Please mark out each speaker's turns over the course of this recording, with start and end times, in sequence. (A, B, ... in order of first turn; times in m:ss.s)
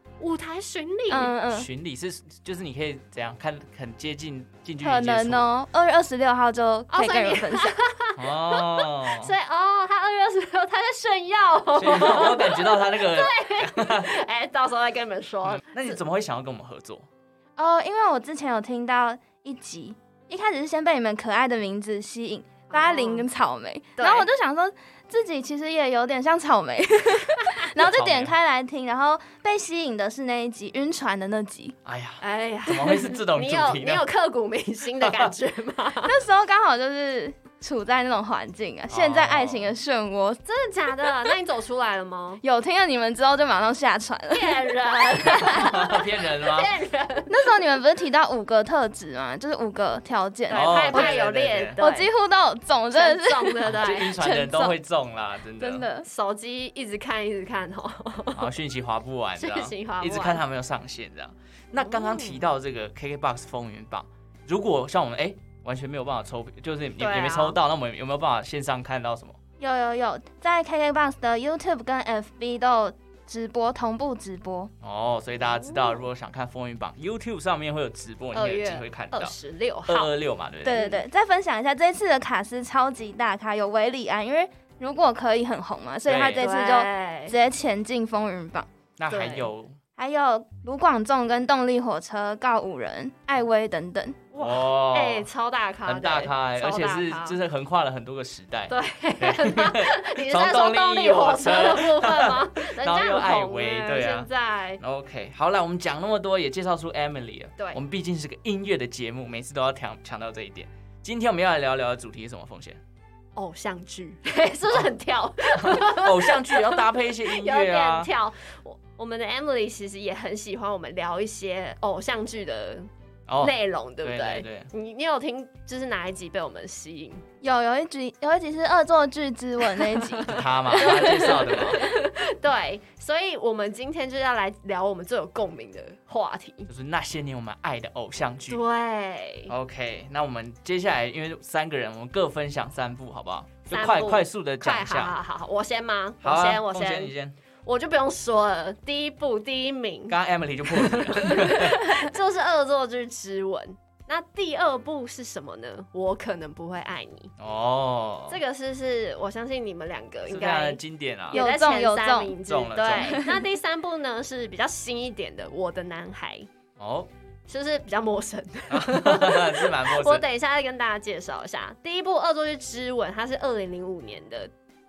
0:00.2-0:01.3 A
0:01.1-0:01.7 B
0:01.5-0:05.5 C
0:04.8-0:07.7 B
0:06.9-0:16.0 A
0:08.2-0:09.3 C
0:11.7-0:14.1 C
0:15.5-0:17.0 C
0:17.6-0:31.8 B
0:22.7-0:23.3 A
0:24.0-0:24.3 A
0:27.8-0:28.3 C
0:31.8-0:34.0 C
0:32.2-0:36.2 A
0:35.0-0:35.3 C
0:36.0-0:40.4 B
0:38.9-0:39.7 C
0:40.4-0:42.4 A
0:41.1-0:41.3 B
0:42.4-0:44.8 B
0:44.3-0:47.5 A
0:45.2-0:46.7 C
0:47.3-0:51.2 B
0:50.5-0:52.1 A
0:50.5-0:51.8 C
0:51.8-0:54.8 B
0:52.9-0:54.1 A
0:53.6-0:55.8 C
0:55.6-0:56.1 B
0:56.0-0:58.5 A
0:58.3-1:09.4 C
0:59.4-1:00.4 A
1:01.7-1:02.5 A
1:07.0-1:07.6 A
1:09.6-1:14.7 B
1:14.8-1:19.3 C
1:15.5-1:16.0 A
1:18.3-1:20.1 A
1:19.9-1:20.8 C
1:20.6-1:28.7 B
1:20.7-1:21.0 A
1:26.0-1:26.4 C
1:26.3-1:27.4 A
1:29.0-1:29.8 C
1:29.1-1:29.5 A
1:30.0-1:34.2 B
1:34.3-1:37.4 A
1:34.4-1:35.3 C
1:35.8-1:44.3 C
1:38.7-1:44.8 A
1:44.8-1:52.8 C
1:53.4-2:02.9 A
1:55.6-1:58.1 C
2:03.3-2:04.7 C
2:03.4-2:07.2 A
2:07.4-2:11.5 B
2:09.9-2:16.7 A
2:10.3-2:11.8 C
2:16.7-2:18.6 C
2:18.5-2:19.5 A
2:19.5-2:25.2 C
2:23.7-2:27.1 A
2:26.2-2:27.3 C
2:27.6-2:37.3 A
2:30.1-2:32.0 C
2:37.4-2:38.4 C
2:38.3-2:40.8 A
2:40.3-2:41.4 C
2:41.3-2:46.5 A
2:41.3-2:42.4 B
2:42.4-2:43.2 C
2:43.0-2:43.4 B
2:46.8-2:47.1 C
2:47.5-2:54.5 A
2:48.7-2:50.2 C